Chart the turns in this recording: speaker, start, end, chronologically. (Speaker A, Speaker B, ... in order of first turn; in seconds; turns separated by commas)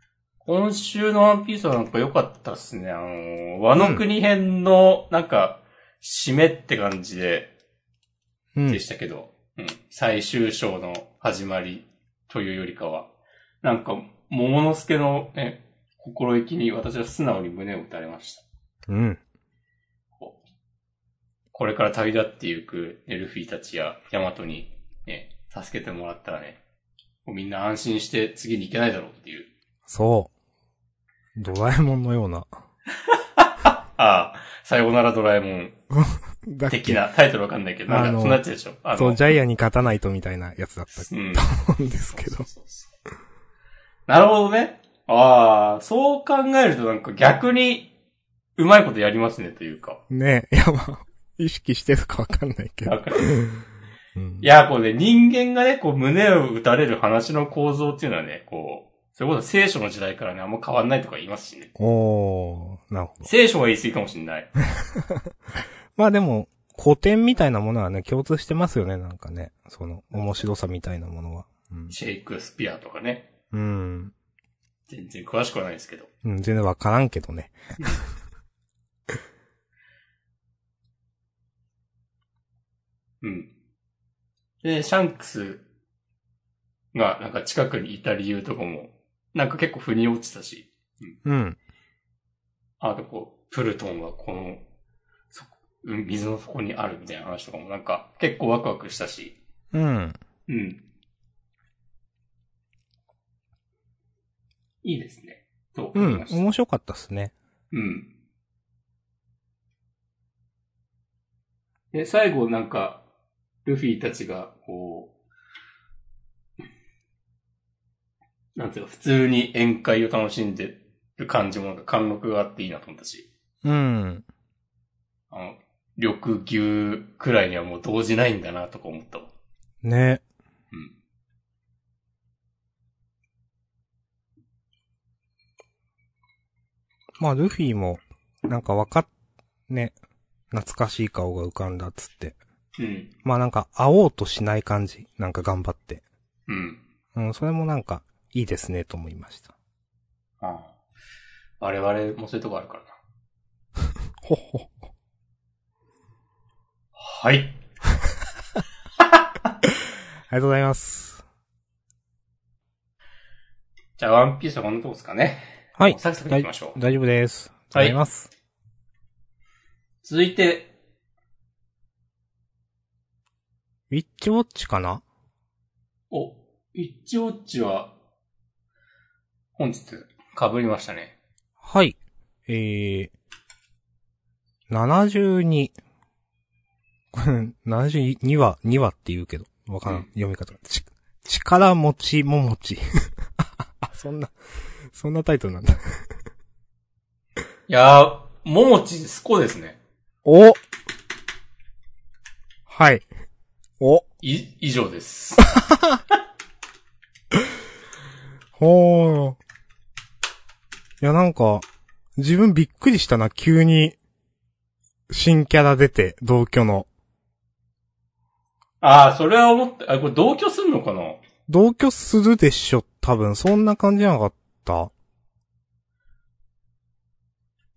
Speaker A: 0.4-7.5, Speaker B: 3.8-4.0, Speaker B: 8.5-8.8, Speaker A: 8.7-13.1, Speaker A: 13.6-18.4, Speaker B: 18.9-19.2, Speaker A: 21.5-26.6, Speaker A: 27.2-29.5, Speaker B: 29.9-30.3, Speaker B: 31.4-32.5, Speaker A: 33.4-35.8, Speaker B: 35.9-37.0, Speaker A: 36.7-39.3, Speaker B: 37.9-38.4, Speaker B: 39.0-42.5, Speaker A: 40.9-41.5, Speaker A: 42.1-42.9, Speaker A: 44.1-47.9, Speaker A: 48.6-50.0, Speaker B: 50.1-53.6, Speaker A: 52.8-53.3, Speaker B: 54.1-54.5, Speaker A: 54.4-61.7, Speaker B: 61.8-63.3, Speaker A: 63.2-64.5, Speaker B: 66.0-71.9, Speaker A: 71.9-73.3, Speaker B: 73.5-74.1, Speaker A: 74.9-76.1, Speaker B: 76.2-77.6, Speaker A: 83.2-83.5, Speaker A: 84.6-85.6, Speaker A: 86.9-91.2, Speaker B: 91.2-91.6, Speaker A: 92.8-94.6, Speaker A: 95.3-99.4, Speaker B: 99.7-100.2, Speaker A: 100.5-100.8, Speaker A: 104.8-106.4, Speaker B: 105.9-107.3, Speaker A: 107.7-108.1, Speaker A: 111.9-113.0, Speaker A: 113.6-115.1, Speaker A: 118.5-123.3, Speaker B: 123.6-124.2, Speaker A: 125.3-129.3, Speaker B: 129.8-130.2, Speaker B: 137.2-139.1, Speaker B: 139.7-139.9, Speaker B: 140.5-142.3, Speaker A: 142.8-143.1, Speaker B: 143.2-146.0, Speaker A: 146.5-146.8, Speaker B: 147.1-149.5, Speaker A: 150.4-150.7, Speaker A: 151.6-153.0, Speaker B: 154.2-154.7, Speaker A: 157.0-157.6, Speaker A: 159.0-159.3, Speaker B: 160.3-161.2, Speaker A: 164.0-166.8, Speaker B: 165.8-168.3, Speaker A: 170.0-170.7, Speaker B: 173.9-175.0, Speaker A: 176.1-177.9, Speaker A: 179.6-181.1, Speaker B: 181.6-183.1, Speaker B: 184.7-185.7, Speaker B: 187.1-192.8, Speaker B: 193.8-194.3, Speaker B: 194.9-195.8, Speaker A: 197.7-199.8, Speaker B: 200.2-200.6, Speaker B: 202.7-203.1, Speaker B: 203.8-204.1, Speaker A: 204.2-205.5, Speaker B: 205.6-206.0, Speaker B: 208.6-209.4, Speaker B: 211.0-211.7, Speaker B: 212.2-213.9, Speaker B: 215.1-216.9, Speaker A: 218.8-221.2, Speaker B: 221.5-224.9